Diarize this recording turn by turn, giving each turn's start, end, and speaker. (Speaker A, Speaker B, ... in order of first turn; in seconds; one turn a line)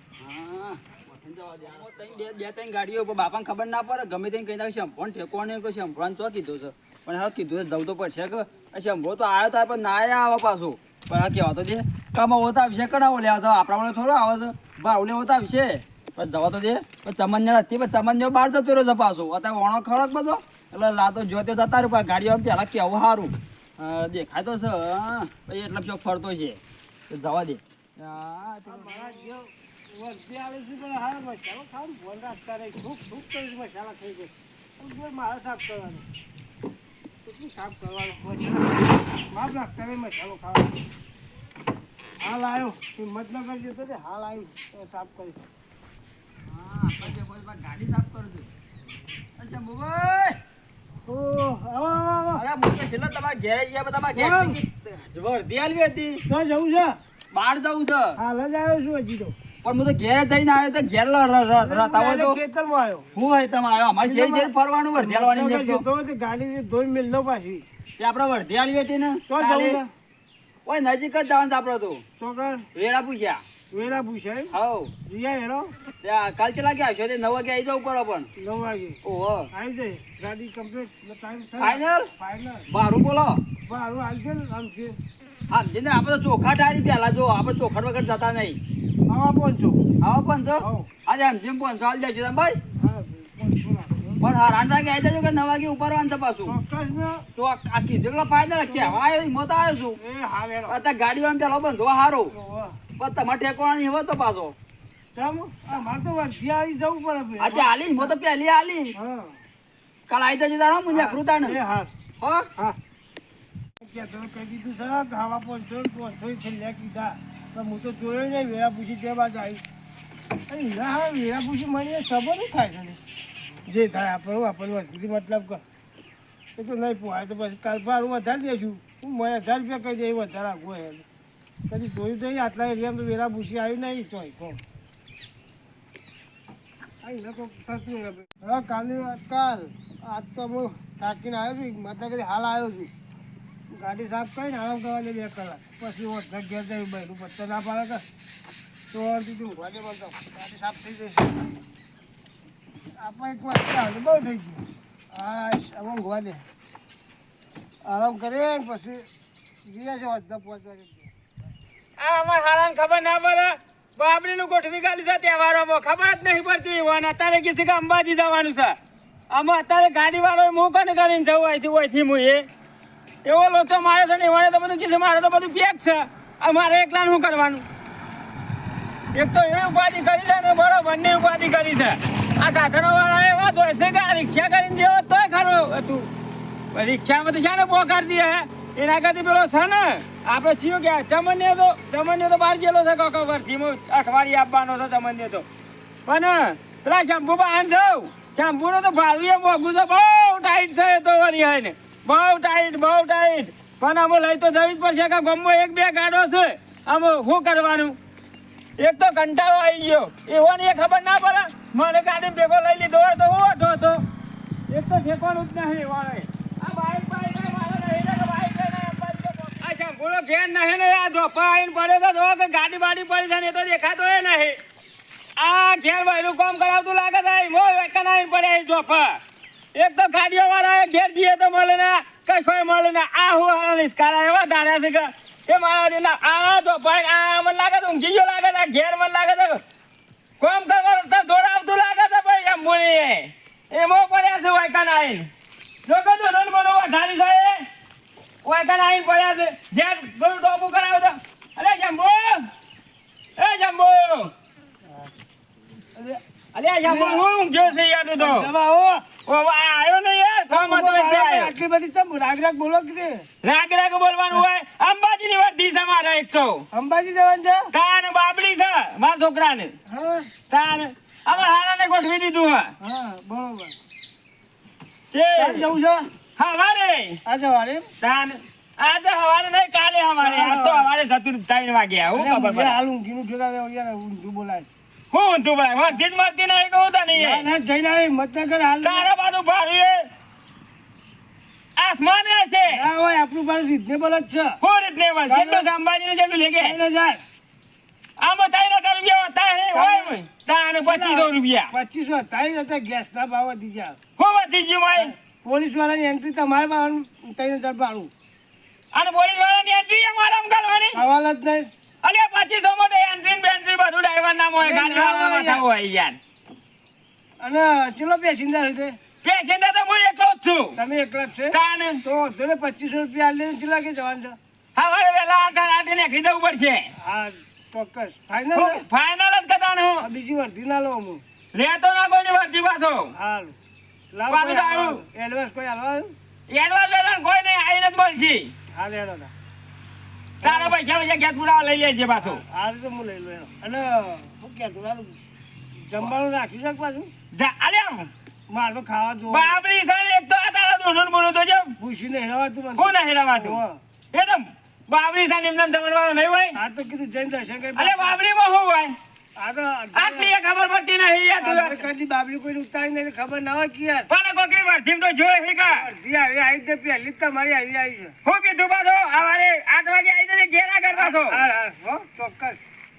Speaker A: 0.2-29.3
Speaker B: 28.6-36.0
Speaker B: 37.2-40.8
Speaker B: 42.2-45.4
Speaker A: 46.5-48.5
Speaker A: 49.4-50.4
Speaker B: 51.1-52.4
Speaker A: 52.4-56.2
Speaker B: 54.1-54.6
Speaker B: 56.3-57.0
Speaker A: 57.3-58.2
Speaker B: 58.2-59.3
Speaker A: 59.6-62.4
Speaker B: 61.6-63.0
Speaker A: 63.1-65.8
Speaker B: 64.0-67.6
Speaker A: 68.0-69.8
Speaker B: 69.3-69.9
Speaker A: 70.7-72.0
Speaker B: 72.2-72.7
Speaker A: 72.7-73.4
Speaker B: 73.7-74.5
Speaker A: 74.5-74.9
Speaker B: 75.0-75.7
Speaker A: 76.0-78.3
Speaker B: 78.4-79.0
Speaker A: 79.0-79.5
Speaker B: 79.5-82.7
Speaker A: 81.6-82.1
Speaker A: 82.7-83.4
Speaker B: 83.7-85.0
Speaker A: 85.5-88.6
Speaker B: 89.1-89.8
Speaker A: 90.0-92.6
Speaker B: 90.6-90.9
Speaker B: 92.8-94.2
Speaker A: 94.2-96.5
Speaker B: 96.4-97.2
Speaker A: 97.3-100.0
Speaker B: 98.7-99.0
Speaker B: 100.0-100.8
Speaker A: 100.7-102.3
Speaker B: 102.3-102.8
Speaker A: 103.0-104.5
Speaker B: 105.1-108.2
Speaker A: 107.4-108.9
Speaker B: 108.9-109.3
Speaker A: 110.1-111.6
Speaker B: 110.9-111.9
Speaker A: 112.2-112.5
Speaker B: 113.8-119.6
Speaker B: 120.5-123.0
Speaker B: 123.7-125.6
Speaker B: 126.5-131.0
Speaker B: 131.7-134.6
Speaker B: 137.0-142.9
Speaker B: 143.7-148.0
Speaker B: 148.9-151.4
Speaker B: 153.0-156.4
Speaker B: 157.8-159.1
Speaker B: 159.6-161.1
Speaker C: 162.0-168.8
Speaker C: 169.3-172.5
Speaker C: 173.2-177.6
Speaker C: 179.1-186.1
Speaker C: 186.7-195.4
Speaker C: 196.1-208.0
Speaker C: 208.8-214.0
Speaker C: 214.7-224.6
Speaker C: 225.4-229.2
Speaker C: 229.7-239.6
Speaker C: 240.4-245.3
Speaker C: 245.8-247.6
Speaker C: 248.4-252.5
Speaker C: 253.4-254.3
Speaker C: 256.5-258.5
Speaker B: 256.8-257.2
Speaker B: 258.2-259.0
Speaker C: 259.2-261.5
Speaker B: 260.5-263.2
Speaker C: 263.4-266.6
Speaker B: 266.7-267.7
Speaker C: 267.7-269.7
Speaker B: 269.9-270.3
Speaker C: 270.5-272.7
Speaker B: 272.8-273.7
Speaker C: 275.1-275.7
Speaker B: 275.4-276.1
Speaker C: 276.4-277.2
Speaker B: 277.2-277.9
Speaker C: 278.0-282.8
Speaker B: 280.2-280.9
Speaker B: 282.1-284.7
Speaker C: 285.1-287.5
Speaker B: 287.1-289.1
Speaker C: 288.8-290.1
Speaker C: 291.8-292.9
Speaker B: 292.7-294.6
Speaker C: 294.6-296.8
Speaker B: 295.2-295.7
Speaker B: 296.6-297.2
Speaker C: 298.2-301.7
Speaker B: 299.7-300.2
Speaker B: 300.9-304.0
Speaker C: 304.2-305.1
Speaker B: 305.1-308.1
Speaker C: 308.9-311.0
Speaker B: 310.9-311.7
Speaker C: 312.0-316.2
Speaker B: 314.6-315.6
Speaker B: 317.4-319.0
Speaker C: 319.2-320.8
Speaker B: 320.8-324.4
Speaker C: 321.5-322.0
Speaker C: 324.7-326.9
Speaker B: 327.0-328.8
Speaker C: 328.5-330.1
Speaker B: 330.0-331.2
Speaker C: 331.5-333.1
Speaker B: 333.1-333.6
Speaker B: 334.1-336.1
Speaker C: 334.3-335.0
Speaker C: 336.5-338.5
Speaker B: 338.7-339.3
Speaker B: 340.4-340.8
Speaker C: 340.4-342.4
Speaker B: 342.2-345.2
Speaker B: 345.9-347.1
Speaker C: 347.3-348.1
Speaker B: 348.5-349.6
Speaker C: 349.3-351.7
Speaker B: 351.8-353.8
Speaker C: 352.8-353.6
Speaker C: 354.1-356.6
Speaker B: 356.5-358.2
Speaker C: 357.8-358.9
Speaker B: 359.4-360.3
Speaker C: 359.9-361.9
Speaker B: 361.4-364.1
Speaker C: 364.1-365.8
Speaker B: 365.6-368.1
Speaker C: 368.2-371.4
Speaker B: 370.9-372.6